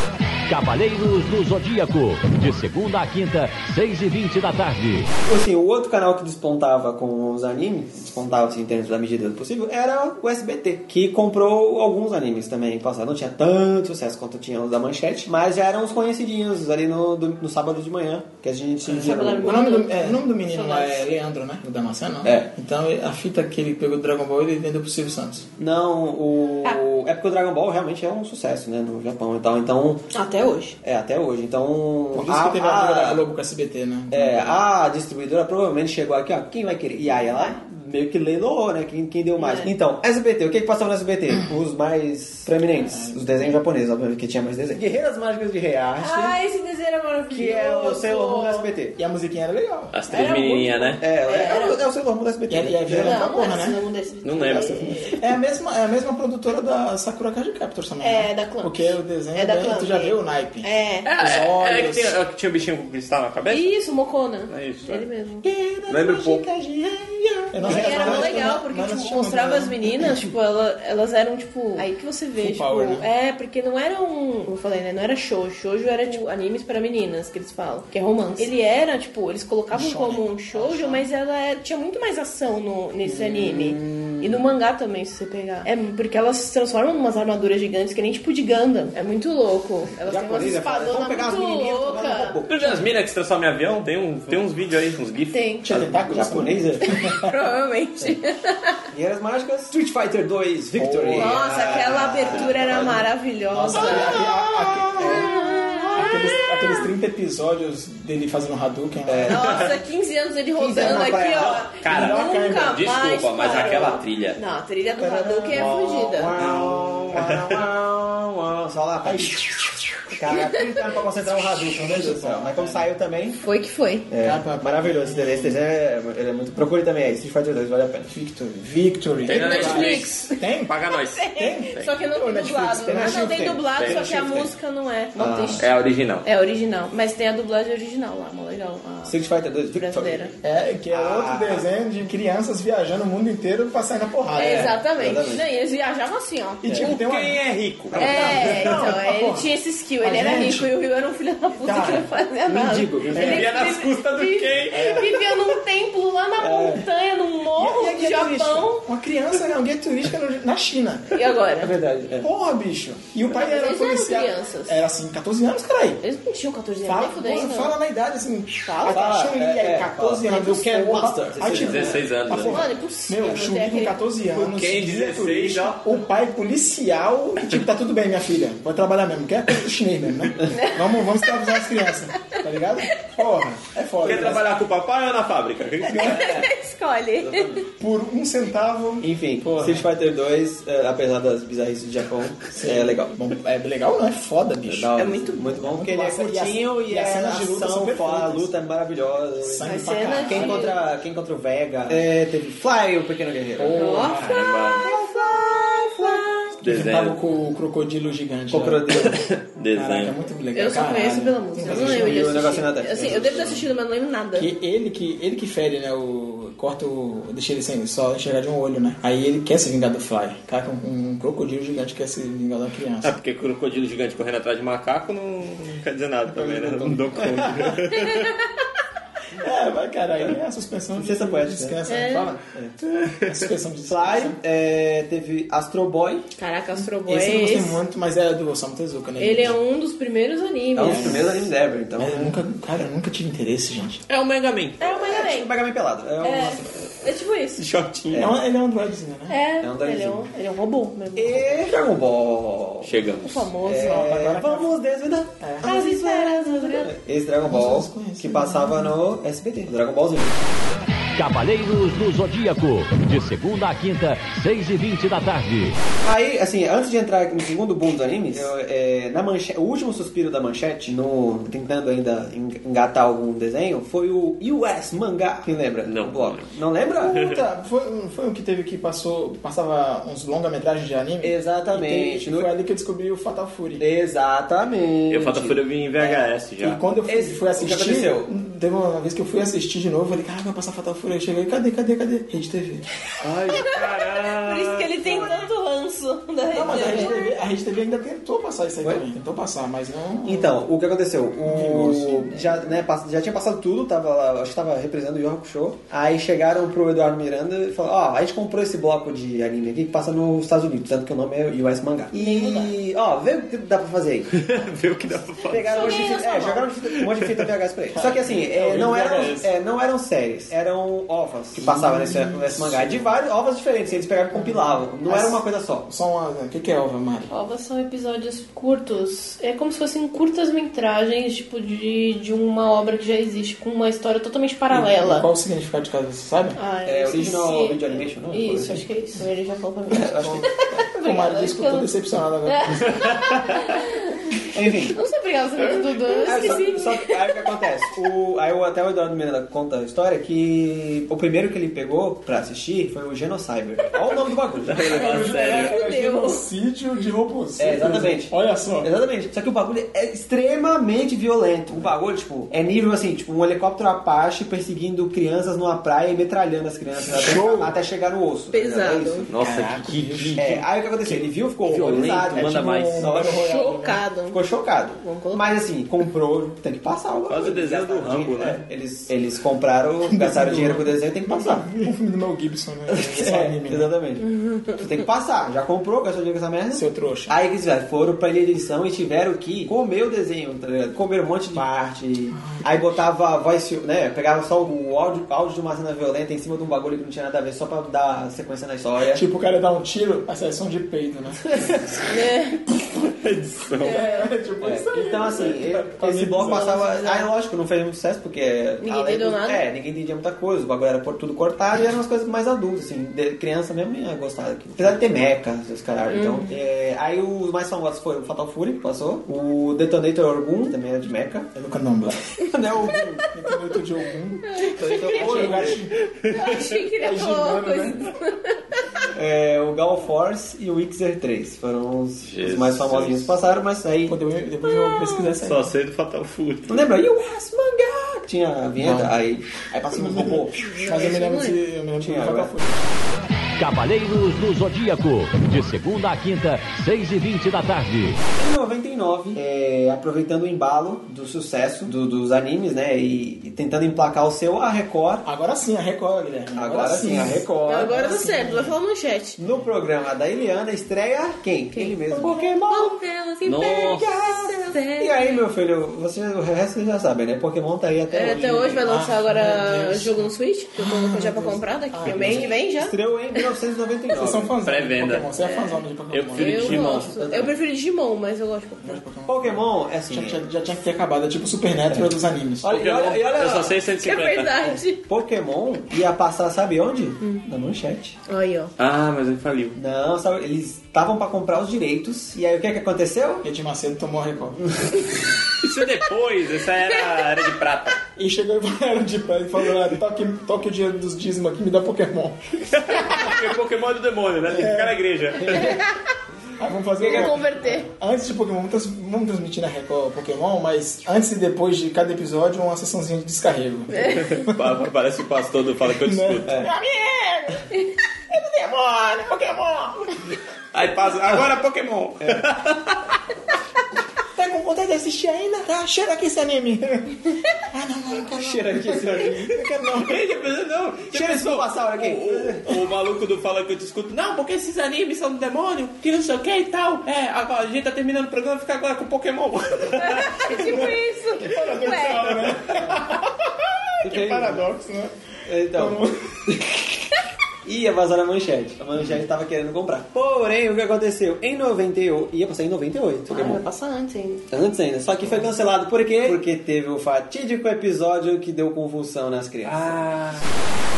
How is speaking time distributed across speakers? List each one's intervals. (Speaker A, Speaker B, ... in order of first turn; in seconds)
Speaker A: 0.5-5.1, 261.2-265.8, 443.6-448.2
Speaker B: 5.3-19.6, 22.2-22.5, 25.6-30.1, 30.8-33.2, 34.1-46.4, 47.3-49.0, 51.0-53.2, 54.5-55.2, 65.4-68.4, 80.5-81.0, 83.0-84.4, 90.0-92.8, 96.0-96.8, 98.9-103.1, 103.7-104.2, 105.0-105.3, 109.1-109.7, 110.5-111.6, 115.0-119.4, 120.1-123.4, 124.1-128.2, 132.9-134.5, 135.2-135.7, 139.1-140.4, 140.9-141.7, 144.5-145.4, 147.9-148.8, 152.5-153.5, 154.7-155.0, 156.4-156.8, 161.6-162.3, 168.9-172.1, 185.9-186.5, 187.2-187.7, 189.0-193.1, 194.7-199.7, 200.3-203.8, 204.8-206.4, 208.5-209.3, 211.7-213.7, 226.4-227.4, 230.9-231.8, 233.8-236.3, 240.8-242.4, 244.9-246.7, 248.1-248.4, 249.6-250.3, 251.2-252.9, 253.6-260.4, 266.0-277.2, 281.2-282.5, 283.8-286.2, 287.1-288.3, 298.8-299.1, 300.2-314.4, 315.5-325.9, 336.9-338.9, 339.9-340.5, 344.5-345.0, 346.2-355.0, 357.6-369.3, 370.4-381.7, 382.9-399.2, 404.6-421.5, 422.4-423.2, 424.8-425.7, 429.1-434.2, 436.7-440.6, 442.0-442.5, 448.4-455.2, 456.6-458.3, 459.4-463.0, 464.0-468.8, 472.1-474.5, 477.1-477.5, 479.3-480.4, 481.9-483.8, 484.9-488.2, 489.8-493.5, 507.0-507.3, 528.4-529.5, 531.1-532.7, 544.0-544.6, 545.5-546.6, 547.6-553.6, 554.5-560.0
Speaker C: 18.9-25.5, 32.1-34.6, 41.3-41.6, 42.7-43.5, 49.0-50.0, 52.5-53.8, 54.9-62.2, 67.5-70.3, 72.3-73.0, 79.7-80.3, 95.6-97.3, 100.7-101.4, 103.5-109.4, 111.9-112.8, 115.5-115.8, 119.0-120.0, 121.6-122.8, 124.2-125.6, 128.1-130.8, 131.4-133.4, 140.4-144.8, 146.6-147.4, 148.1-149.5, 150.0-150.7, 151.6-152.1, 157.5-161.3, 162.2-166.0, 166.8-184.5, 185.9-186.4, 187.8-189.9, 192.5-198.6, 199.4-200.7, 203.6-204.3, 206.6-212.5, 213.0-213.6, 214.3-223.2, 226.4-227.8, 229.4-232.4, 233.1-234.4, 237.0-239.6, 240.8-244.0, 248.2-249.4, 253.8-254.8, 255.4-255.7, 257.4-259.0, 277.0-283.8, 286.6-292.9, 296.5-300.7, 301.4-302.6, 317.9-319.5, 321.5-323.1, 324.3-327.3, 334.7-336.6, 340.2-343.0, 354.9-358.9, 367.1-367.8, 369.4-370.6, 372.4-373.7, 380.1-383.9, 386.7-387.4, 392.3-393.0, 399.1-401.8, 403.8-406.8, 421.6-422.2, 423.3-428.1, 434.1-435.7, 438.8-439.1, 439.7-442.9, 455.2-458.7, 462.1-462.5, 468.8-472.5, 474.1-477.1, 478.8-482.7, 493.4-494.6, 498.2-502.4, 504.5-505.8, 506.6-514.7, 515.9-517.7, 518.3-520.2, 524.4-530.2, 540.7-546.6
Speaker D: 18.9-21.1, 30.1-30.8, 39.4-39.7, 46.0-48.7, 50.1-51.8, 52.9-54.9, 58.0-61.1, 63.5-65.5, 67.6-92.4, 95.3-95.7, 96.9-98.8, 101.1-104.3, 104.9-106.9, 109.3-116.3, 123.4-124.1, 129.3-130.4, 131.1-135.7, 136.2-139.2, 139.7-140.3, 144.3-146.9, 147.9-158.9, 161.1-161.8, 163.3-164.8, 166.0-167.8, 168.7-169.1, 172.3-174.0, 180.5-181.7, 185.9-187.6, 195.0-195.6, 199.6-200.8, 203.7-204.9, 210.5-214.5, 228.0-228.3, 231.9-232.3, 236.4-237.8, 239.2-241.3, 244.8-245.5, 246.2-247.7, 249.3-251.7, 253.2-254.3, 255.6-257.0, 293.6-297.2, 312.1-312.8, 315.6-316.7, 327.3-335.3, 336.6-341.9, 342.5-347.3, 354.8-356.4, 368.5-369.3, 373.2-374.4, 375.0-375.4, 384.2-384.8, 402.1-402.6, 403.8-404.3, 406.4-407.3, 408.8-409.6, 416.1-416.6, 424.5-425.6, 426.3-428.6, 434.6-435.2, 440.6-441.6, 457.7-459.4, 461.7-465.4, 468.1-473.0, 475.4-475.8, 476.4-479.0, 484.0-485.0, 488.3-488.7, 507.1-507.9, 514.0-514.3, 540.0-542.4, 553.3-554.4
Speaker E: 49.9-51.0, 54.2-55.0, 61.0-63.7, 64.5-65.0, 65.9-66.5, 92.5-96.0, 111.4-114.4, 116.4-117.6, 129.2-131.9, 133.8-134.1, 135.6-136.3, 146.7-148.8, 153.1-155.2, 171.4-172.7, 174.3-175.9, 184.0-186.4, 203.9-204.8, 206.6-207.2, 209.1-210.2, 223.0-228.3, 244.1-244.8, 247.6-248.3, 252.8-253.5, 275.9-276.5, 285.1-286.8, 293.2-295.3, 314.3-316.2, 342.9-343.6, 354.7-355.8, 369.3-373.3, 377.3-378.6, 403.0-404.0, 425.3-426.7, 432.2-433.4, 435.4-436.9, 463.4-464.5, 474.6-475.3, 476.1-477.1, 482.6-484.8, 488.8-489.8, 495.6-498.0, 502.7-505.6, 514.1-516.7, 520.7-523.0, 530.0-540.9, 559.6-560.5